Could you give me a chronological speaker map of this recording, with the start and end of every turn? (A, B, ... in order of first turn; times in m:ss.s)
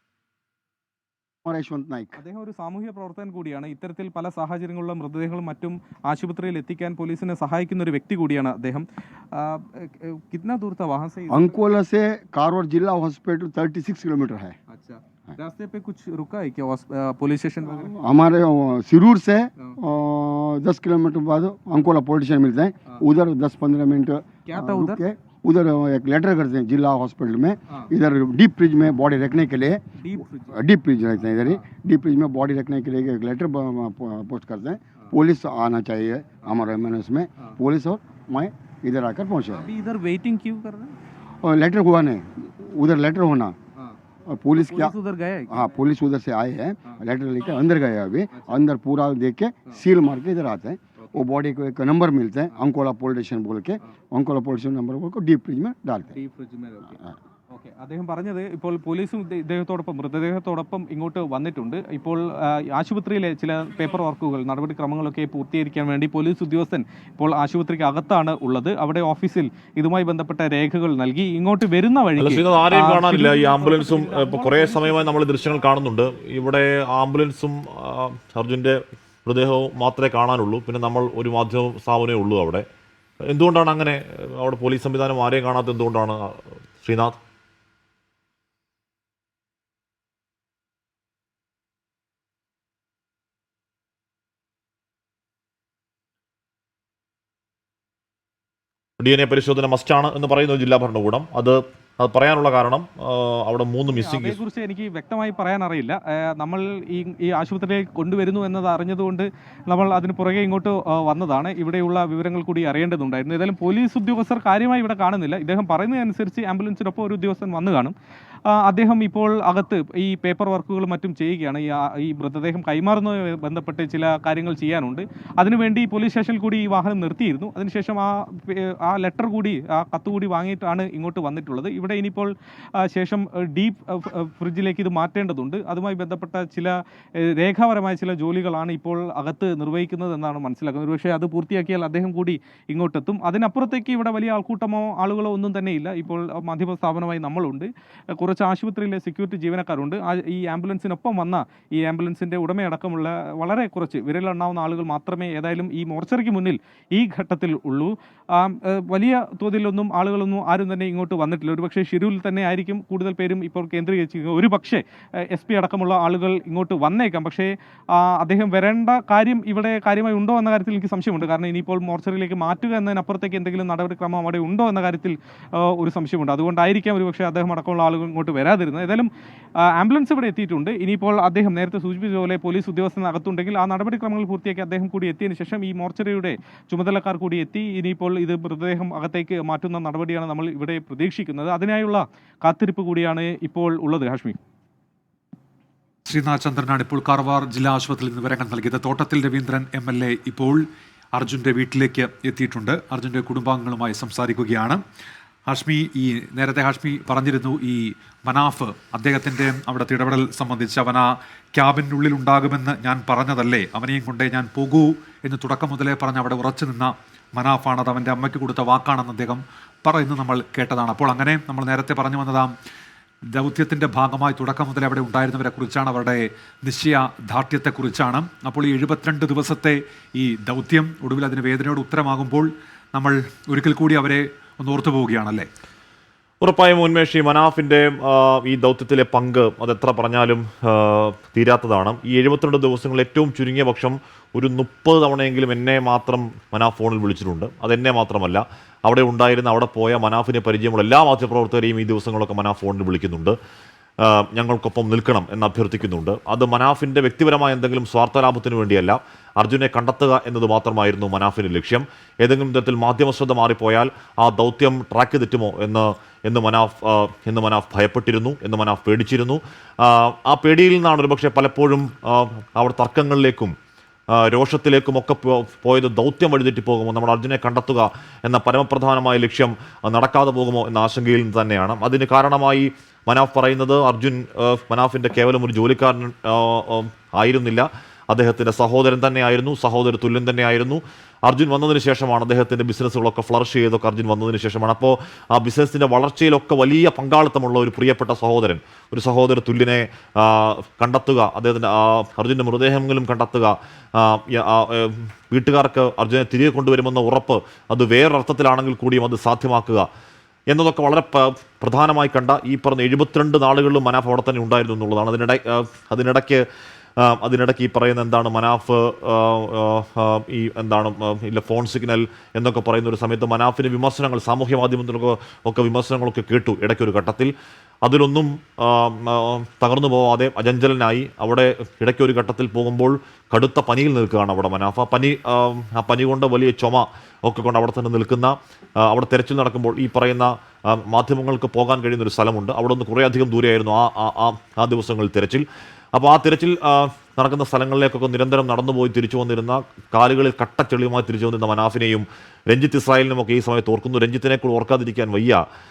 0:01.4-0:02.2 A
0:02.2-0:11.6 B
0:11.3-0:14.6 A
0:14.7-0:17.9 B
0:17.8-0:29.8 A
0:24.5-0:25.0 B
0:30.0-0:30.6 B
0:30.5-0:39.7 A
0:39.5-0:40.9 B
0:41.4-0:43.6 A
0:44.3-0:44.9 A
0:44.6-0:45.7 B
0:45.5-0:56.2 A
0:48.3-0:48.6 B
0:51.0-0:51.3 B
0:56.1-0:57.0 B
0:57.5-1:15.2 B
1:12.2-1:22.6 C
1:23.2-1:27.2 C
1:39.0-1:44.4 C
1:43.9-1:58.0 B
1:58.5-2:59.1 B
2:59.7-3:14.4 B
3:16.1-3:24.8 D
3:25.5-3:42.5 D
3:43.3-3:55.5 D
3:56.4-4:13.4 C
4:14.0-4:33.5 C
4:34.1-5:09.9 C
5:10.5-5:16.4 C
5:17.0-5:27.3 C
5:27.8-5:55.4 C